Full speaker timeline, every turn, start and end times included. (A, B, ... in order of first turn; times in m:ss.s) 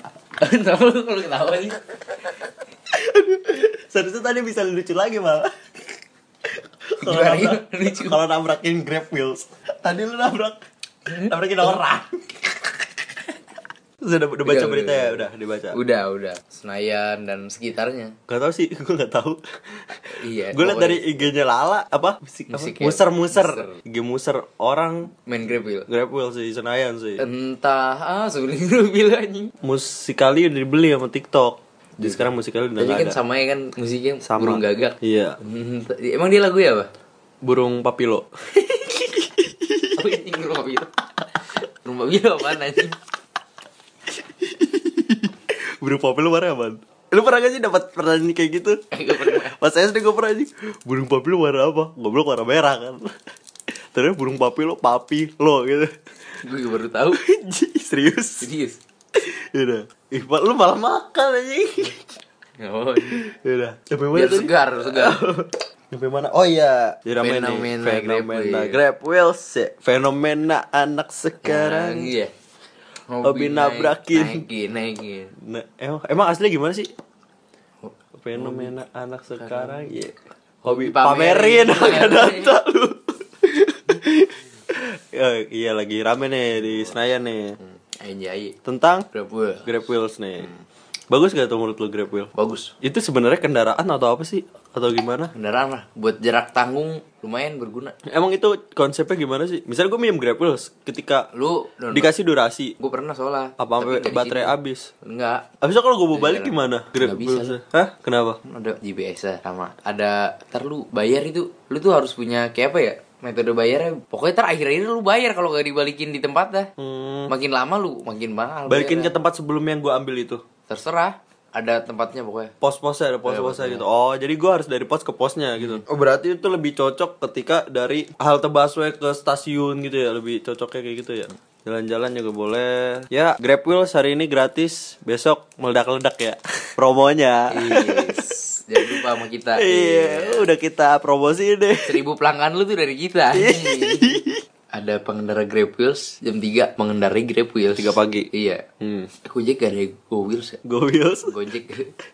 0:00.4-0:01.8 A
0:02.9-0:05.5 B
0:06.9-0:10.6 B
0:07.0-0:08.2 A
0:11.1-0:12.0 A
0:11.2-0:12.1 B
0:14.0-0:15.8 B
0:14.4-0:18.2 A
0:18.3-0:19.4 B
0:20.1-0:21.3 A
0:20.5-0:25.1 B
0:22.5-0:23.8 A
0:25.3-0:25.9 A
0:25.9-0:27.2 B
0:27.2-0:29.5 A
0:29.6-0:33.2 B
0:32.0-0:36.9 A
0:34.2-0:35.4 B
0:37.4-0:38.3 B
0:38.5-0:39.2 A
0:39.4-0:40.0 B
0:40.0-0:41.0 A
0:41.6-0:43.0 A
0:44.2-0:53.1 B
0:48.9-0:49.6 A
0:53.9-0:55.9 B
0:56.4-0:57.2 A
0:57.2-0:58.5 B
0:58.4-0:58.8 A
0:59.2-1:02.1 B
1:02.6-1:03.2 A
1:03.1-1:12.1 B
1:04.1-1:05.2 A
1:07.2-1:08.8 A
1:11.4-1:12.3 A
1:13.1-1:15.3 A
1:13.2-1:14.4 B
1:15.4-1:16.9 B
1:17.8-1:18.7 A
1:18.2-1:27.6 B
1:19.4-1:19.9 A
1:20.6-1:22.5 A
1:27.6-1:28.6 A
1:28.6-1:29.1 B
1:29.1-1:29.8 A
1:29.6-1:30.5 B
1:31.1-1:35.3 B
1:32.3-1:32.7 A
1:35.3-1:38.0 A
1:38.1-1:41.3 B
1:41.3-1:42.1 A
1:41.9-1:42.8 B
1:42.8-1:45.5 A
1:43.6-1:44.9 B
1:45.6-1:48.4 B
1:46.1-1:47.6 A
1:48.4-1:56.7 A
1:56.8-1:57.3 B
1:57.3-1:59.1 A
1:58.7-2:00.4 B
2:00.7-2:02.5 A
2:02.6-2:18.2 B
2:03.2-2:03.9 A
2:05.6-2:05.8 A
2:17.5-2:20.5 A
2:18.8-2:22.0 B
2:21.9-2:24.2 A
2:23.3-2:24.4 B
2:24.7-2:28.6 A
2:27.8-2:28.3 B
2:28.8-2:29.1 B
2:29.2-2:30.6 A
2:30.6-2:31.4 B
2:31.3-2:31.9 A